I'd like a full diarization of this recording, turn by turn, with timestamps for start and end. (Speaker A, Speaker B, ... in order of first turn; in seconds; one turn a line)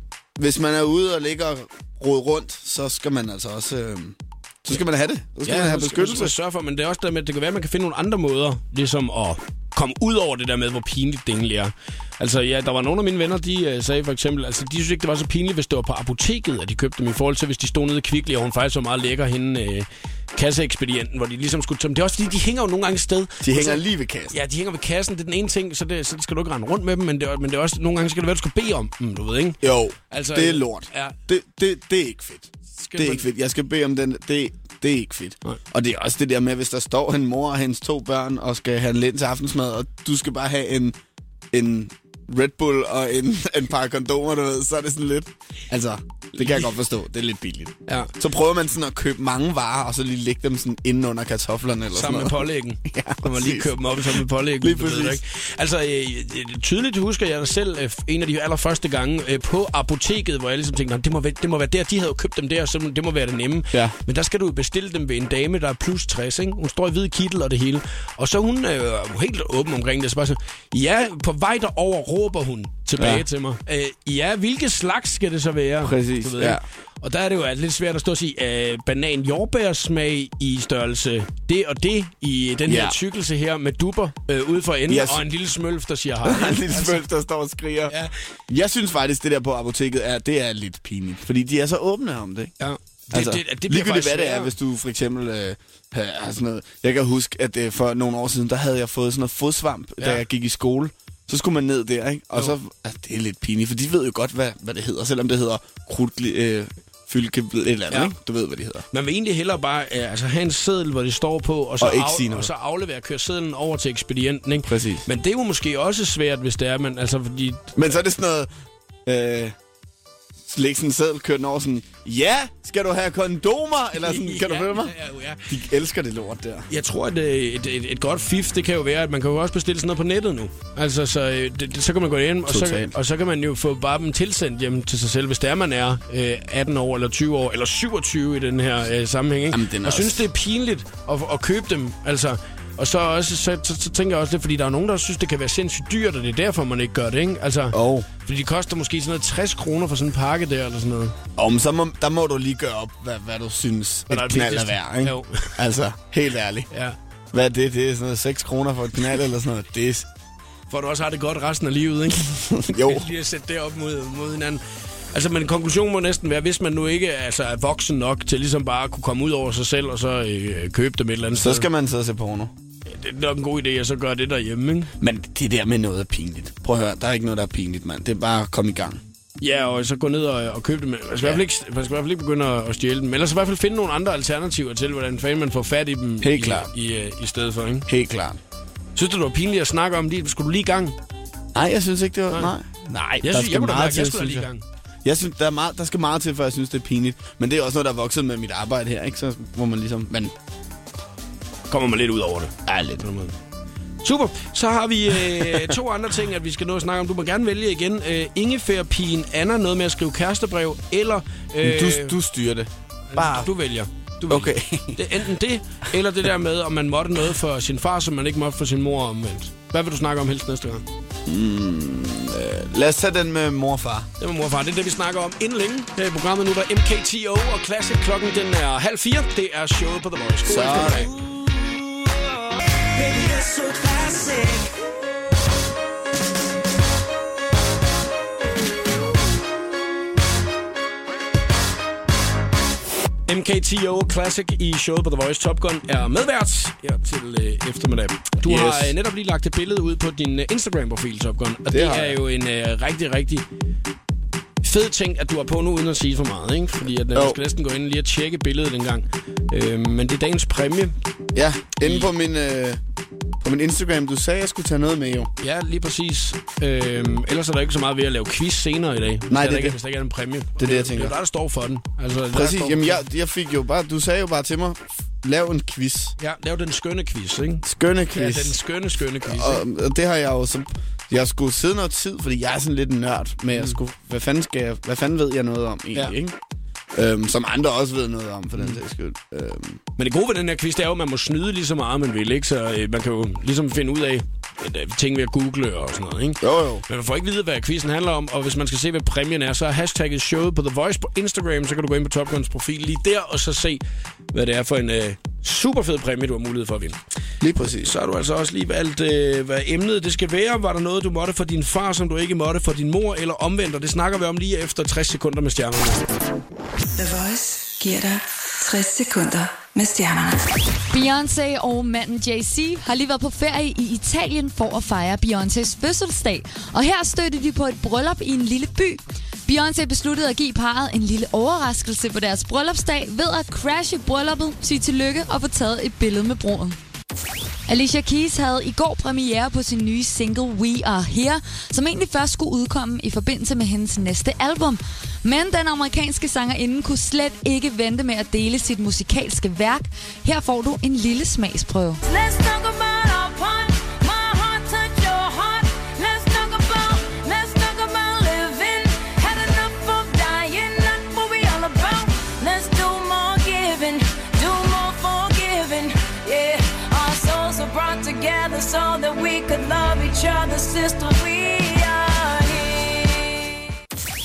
Speaker A: 0.4-6.3
Speaker B: 5.4-31.2
Speaker A: 23.4-24.4
Speaker A: 29.6-41.0
Speaker B: 32.8-33.3
Speaker A: 41.5-55.2
Speaker B: 46.4-46.7
Speaker B: 51.9-87.0
Speaker A: 73.0-73.3
Speaker A: 75.8-76.6
Speaker A: 82.7-83.0
Speaker A: 84.9-85.2
Speaker A: 86.2-88.0
Speaker B: 87.9-88.2
Speaker A: 88.5-92.5
Speaker B: 92.6-94.5
Speaker A: 93.1-108.9
Speaker B: 108.9-118.0
Speaker A: 111.8-112.5
Speaker A: 114.7-115.1
Speaker A: 117.8-118.5
Speaker A: 119.1-119.5
Speaker A: 120.4-125.0
Speaker B: 124.0-125.5
Speaker A: 125.5-126.7
Speaker B: 126.7-151.2
Speaker A: 132.5-132.9
Speaker A: 139.5-140.3
Speaker A: 147.7-148.1
Speaker A: 151.4-156.7
Speaker B: 154.1-155.6
Speaker B: 156.7-157.0
Speaker A: 157.3-160.1
Speaker B: 160.7-164.6
Speaker A: 162.5-163.1
Speaker B: 165.1-171.7
Speaker A: 171.3-172.5
Speaker B: 172.9-174.9
Speaker A: 175.0-179.0
Speaker B: 179.4-187.9
Speaker A: 186.2-186.7
Speaker A: 187.9-188.4
Speaker B: 189.0-191.0
Speaker A: 191.6-194.5
Speaker B: 193.2-194.6
Speaker A: 195.1-200.3
Speaker B: 201.7-203.3
Speaker A: 202.7-203.1
Speaker B: 204.0-212.2
Speaker A: 205.2-205.8
Speaker A: 211.6-213.5
Speaker B: 213.1-220.8
Speaker A: 214.3-215.0
Speaker A: 221.2-224.1
Speaker B: 224.2-231.2
Speaker A: 230.4-231.2
Speaker C: 233.0-234.7
Speaker B: 243.3-253.4
Speaker A: 248.4-248.9
Speaker A: 251.7-252.2
Speaker B: 254.6-260.9
Speaker A: 257.1-257.4
Speaker A: 261.3-262.8
Speaker B: 261.8-262.1
Speaker A: 263.4-265.3
Speaker B: 265.4-273.0
Speaker A: 269.3-269.8
Speaker A: 270.6-271.2
Speaker A: 272.3-276.2
Speaker B: 276.2-279.6
Speaker A: 277.6-278.6
Speaker A: 279.2-286.4
Speaker A: 286.9-289.8
Speaker B: 290.0-303.8
Speaker A: 296.4-296.8
Speaker B: 304.3-307.0
Speaker A: 307.4-307.9
Speaker B: 307.8-316.0
Speaker D: 317.0-320.4
Speaker E: 320.9-336.8
Speaker E: 337.7-352.0
Speaker C: 352.1-373.5